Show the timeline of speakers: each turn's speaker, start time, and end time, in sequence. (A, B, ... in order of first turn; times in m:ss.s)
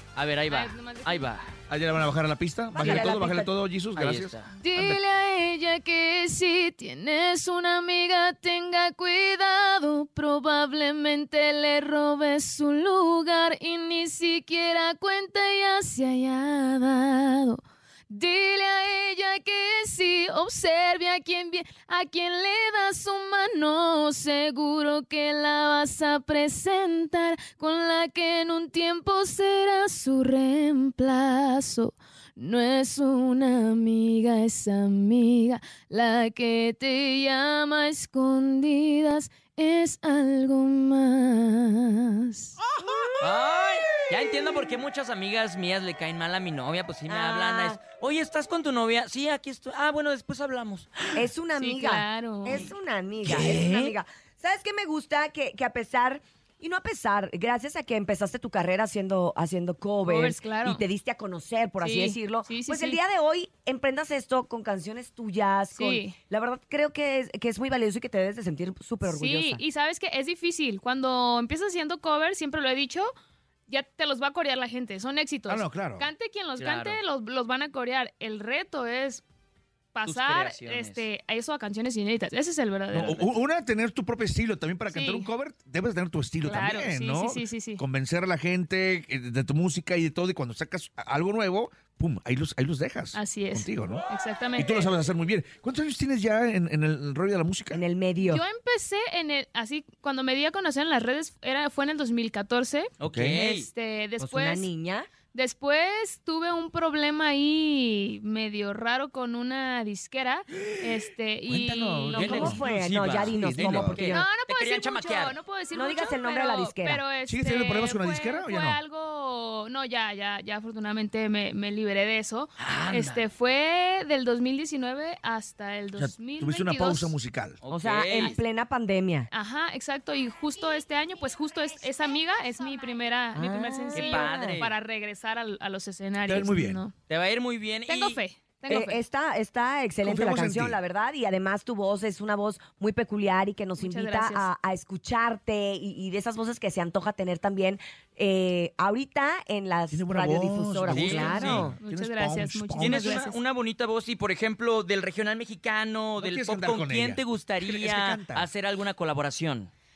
0:00.2-0:01.5 A
0:00.5-0:01.3 B
0:01.7-0:05.0 C
0:02.7-0:03.5 D
0:02.8-0:03.1 A
0:03.9-0:04.5 A
0:04.5-0:42.5 B
0:43.2-0:51.0 A
0:47.1-0:47.8 D
0:51.1-1:09.6 D
0:51.6-0:52.7 B
0:53.2-0:54.0 A
1:00.0-1:00.8 B
1:01.8-1:03.0 B
1:05.7-1:06.2 B
1:09.0-1:13.1 B
1:13.7-1:19.2 B
1:15.5-1:16.1 C
1:16.6-1:17.0 A
1:19.9-1:23.3 B
1:20.0-1:21.1 A
1:22.9-1:34.0 C
1:24.9-1:25.3 B
1:26.4-1:27.8 B
1:33.1-1:34.9 B
1:34.6-1:37.8 C
1:37.7-1:38.4 D
1:38.2-1:44.7 B
1:43.0-1:43.7 A
1:43.0-1:43.4 C
1:44.2-1:45.1 D
1:45.3-1:52.6 B
1:51.5-1:54.0 C
1:52.1-1:55.4 A
1:52.2-1:54.2 D
1:54.1-2:07.1 B
1:55.7-1:57.0 D
1:57.1-1:58.8 C
2:02.6-2:03.2 A
2:06.0-2:07.6 C
2:07.6-2:08.4 A
2:07.7-2:09.3 D
2:09.3-2:16.9 B
2:13.3-2:14.6 D
2:13.9-2:14.7 A
2:16.2-2:16.8 C
2:17.1-2:18.2 A
2:17.9-2:19.0 B
2:18.7-2:31.8 D
2:20.0-2:20.8 C
2:23.8-2:24.5 B
2:29.9-2:33.2 C
2:30.9-2:31.6 A
2:31.8-2:33.4 B
2:32.8-2:39.7 A
2:36.2-2:38.5 C